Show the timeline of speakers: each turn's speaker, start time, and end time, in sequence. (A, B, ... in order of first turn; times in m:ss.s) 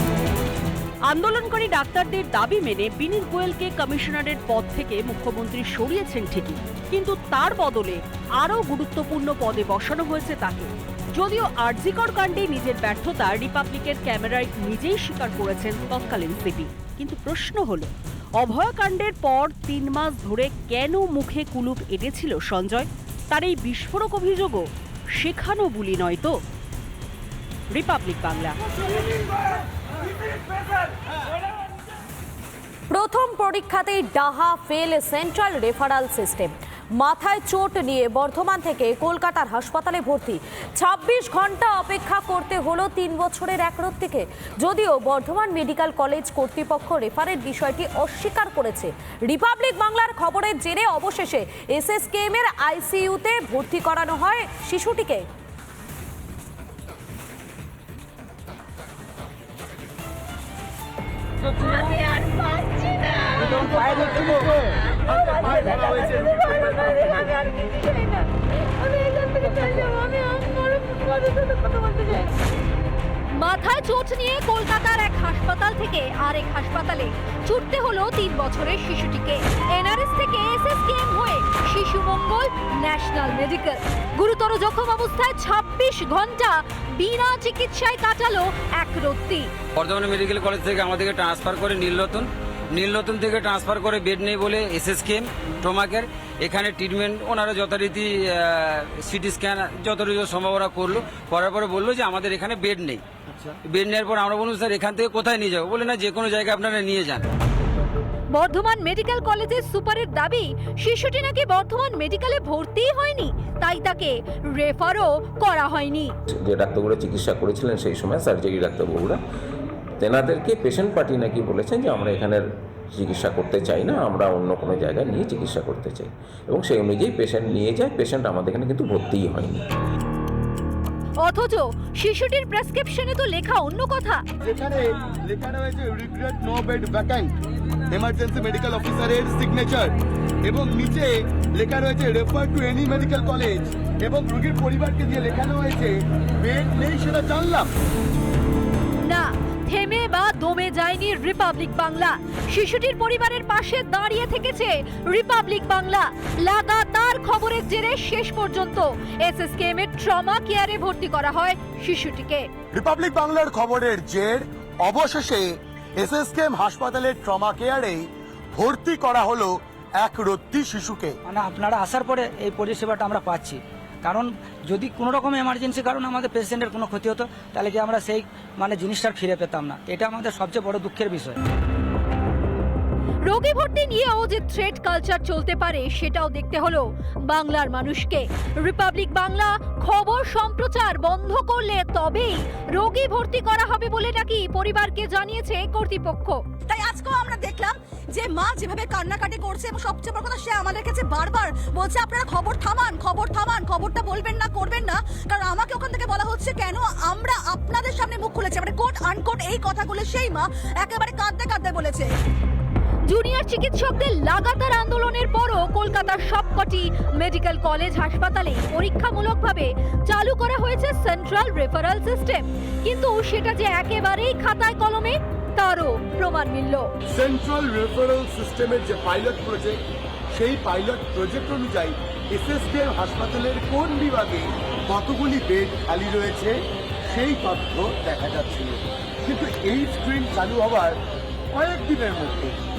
0:01.1-0:24.6 A
0:25.2-0:26.4 A
0:27.7-0:28.6 A
0:32.9-0:55.2 B
1:03.5-1:04.5 C
1:05.5-1:07.0 C
1:13.4-1:29.5 D
1:29.7-1:47.3 E
1:48.3-1:56.1 D
1:56.4-1:59.2 F
2:00.0-2:09.6 F
2:11.2-2:14.2 D
2:14.4-2:17.3 C
2:17.9-2:19.9 C
2:20.4-2:27.7 C
2:29.1-2:42.4 D
2:42.7-2:51.2 C
2:51.2-3:01.4 G
3:03.3-3:16.4 D
3:16.6-3:32.1 H
3:33.1-3:46.8 D
3:47.1-3:49.8 C
3:50.3-3:56.6 C
3:57.1-4:01.0 C
4:01.5-4:02.6 C